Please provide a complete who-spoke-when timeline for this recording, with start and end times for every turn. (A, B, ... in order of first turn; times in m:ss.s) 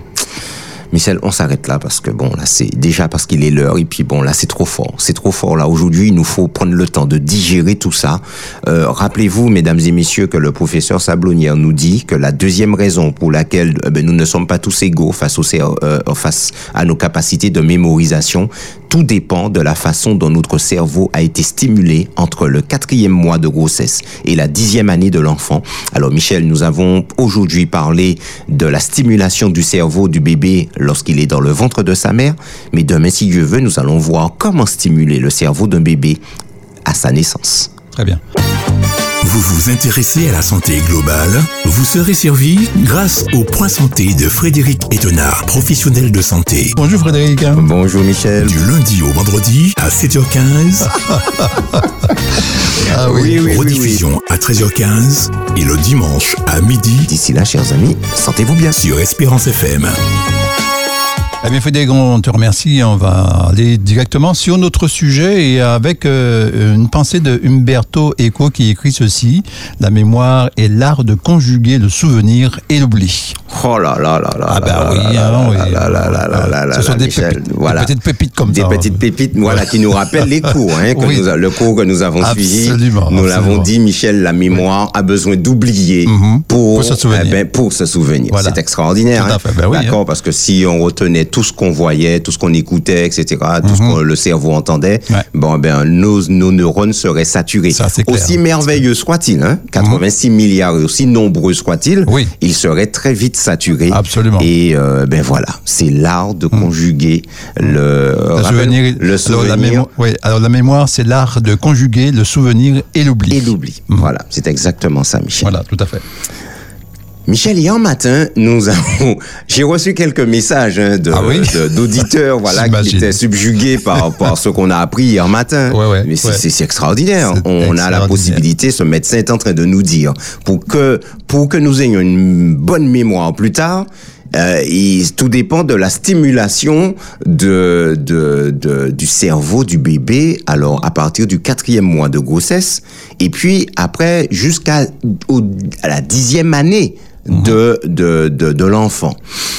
0:00.9-0:36.2 A
0:36.9-0:37.7 A
0:38.0-0:38.2 B
0:39.2-0:46.8 C
0:46.8-0:47.7 B
0:47.5-0:48.6 A
0:48.4-0:51.0 C
0:51.1-0:51.8 B
0:52.8-0:53.4 B
0:52.9-0:54.0 A
0:53.1-0:57.1 C
0:57.1-0:58.8 A
0:58.7-1:00.0 C
1:01.4-1:13.4 B
1:13.5-1:49.9 A
1:14.5-1:21.3 B
1:22.2-1:23.7 B
1:26.1-1:27.4 B
1:28.3-1:28.6 B
1:29.1-1:30.0 B
1:33.6-1:34.0 B
1:37.7-1:38.4 B
1:42.1-1:42.3 B
1:43.9-1:44.5 B
1:48.4-1:54.1 B
1:53.3-1:55.5 A
1:55.4-1:56.0 B
1:57.3-2:29.2 A
2:01.1-2:01.6 B
2:02.5-2:03.2 B
2:05.7-2:06.4 B
2:07.2-2:08.4 B